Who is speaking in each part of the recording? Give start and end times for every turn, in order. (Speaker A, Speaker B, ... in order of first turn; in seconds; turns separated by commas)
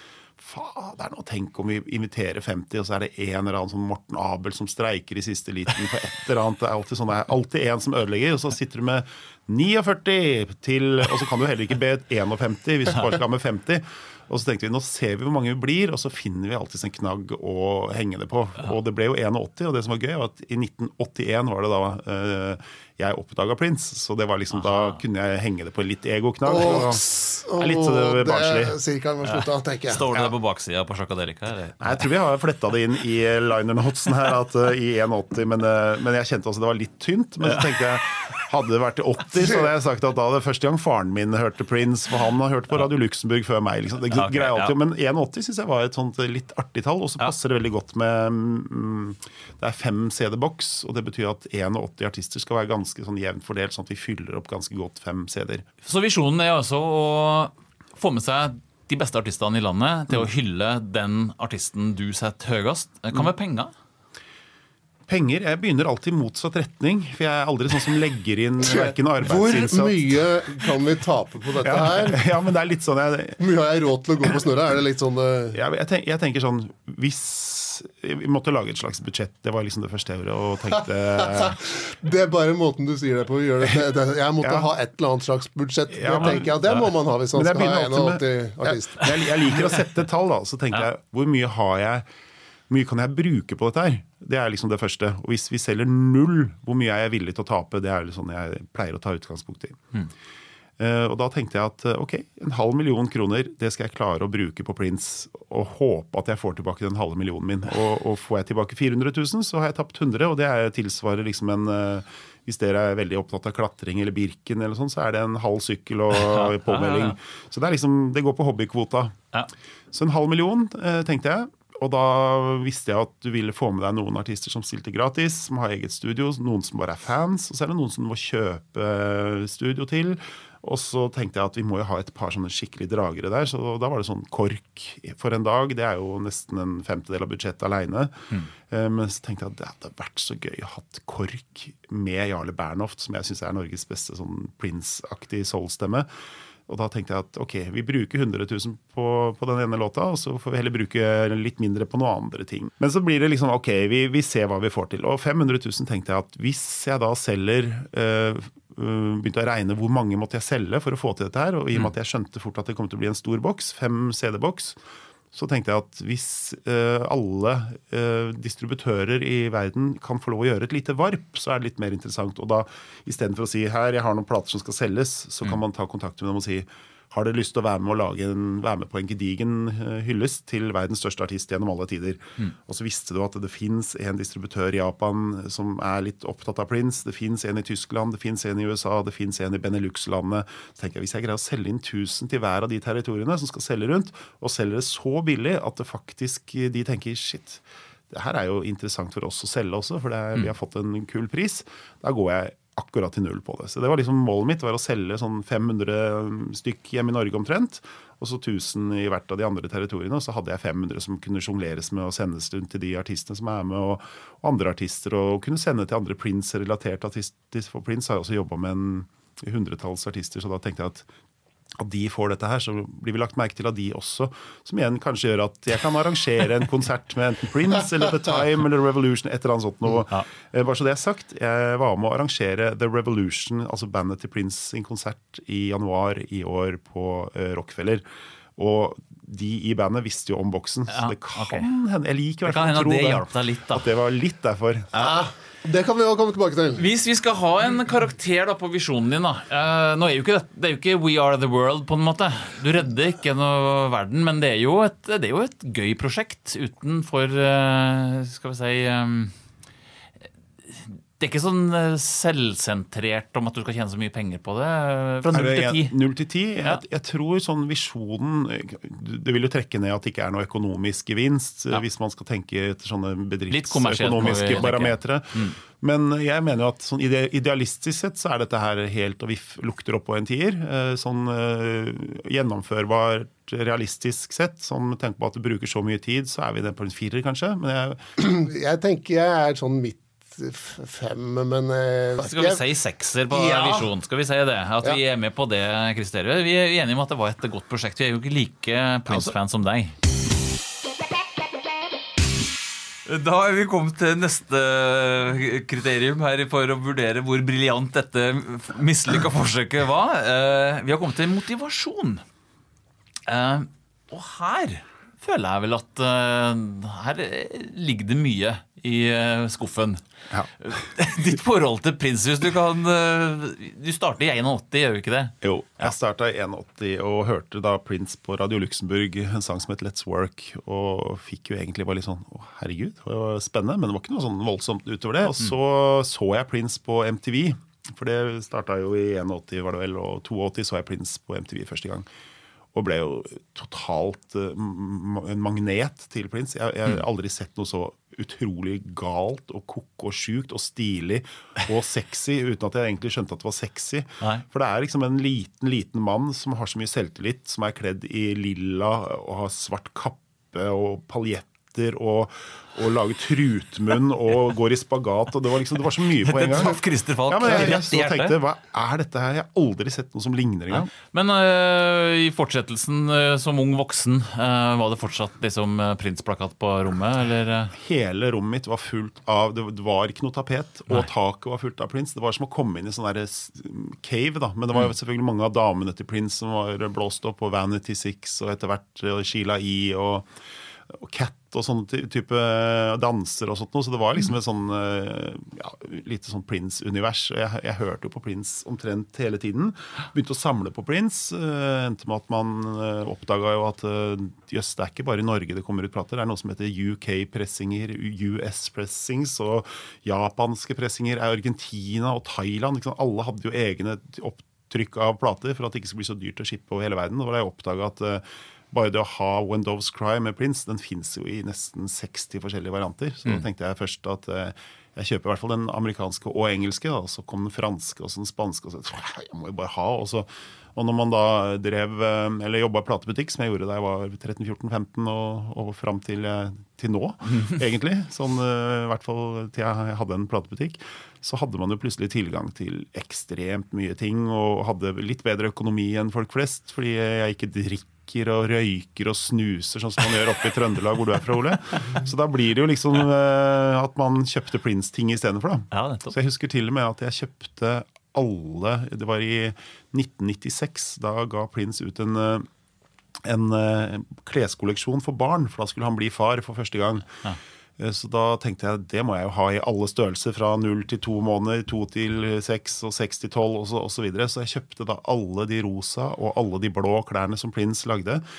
Speaker A: 0.4-28.8, Speaker B: 24.6-25.0, Speaker C: 26.4-30.3, Speaker B: 29.2-32.0, Speaker A: 31.8-55.6, Speaker B: 44.1-44.7, Speaker B: 55.8-63.7, Speaker A: 65.1-70.3, Speaker C: 68.6-72.2, Speaker A: 71.6-73.4, Speaker C: 73.4-75.6, Speaker A: 75.5-81.6, Speaker C: 81.2-89.1, Speaker A: 84.4-84.7, Speaker A: 85.9-86.5, Speaker B: 86.2-86.8, Speaker A: 87.3-92.0, Speaker A: 92.7-99.8, Speaker A: 100.8-119.2, Speaker B: 116.1-117.2, Speaker A: 119.9-146.1, Speaker A: 146.7-164.8, Speaker A: 165.3-221.1, Speaker A: 221.8-238.0, Speaker A: 238.6-244.9, Speaker B: 240.9-241.7, Speaker B: 242.4-243.9, Speaker C: 244.9-246.8, Speaker B: 246.8-259.3, Speaker B: 260.7-265.9, Speaker A: 265.3-288.0, Speaker B: 273.5-275.6, Speaker C: 288.2-292.6, Speaker B: 292.2-299.9, Speaker C: 293.3-293.9, Speaker B: 303.1-312.2, Speaker B: 313.2-320.0, Speaker B: 320.6-325.9, Speaker A: 325.4-342.1, Speaker A: 342.7-370.9, Speaker B: 366.2-368.4, Speaker B: 370.9-377.7, Speaker A: 377.7-390.3, Speaker A: 390.9-462.5, Speaker B: 455.7-456.1, Speaker A: 463.2-467.1, Speaker A: 467.8-478.2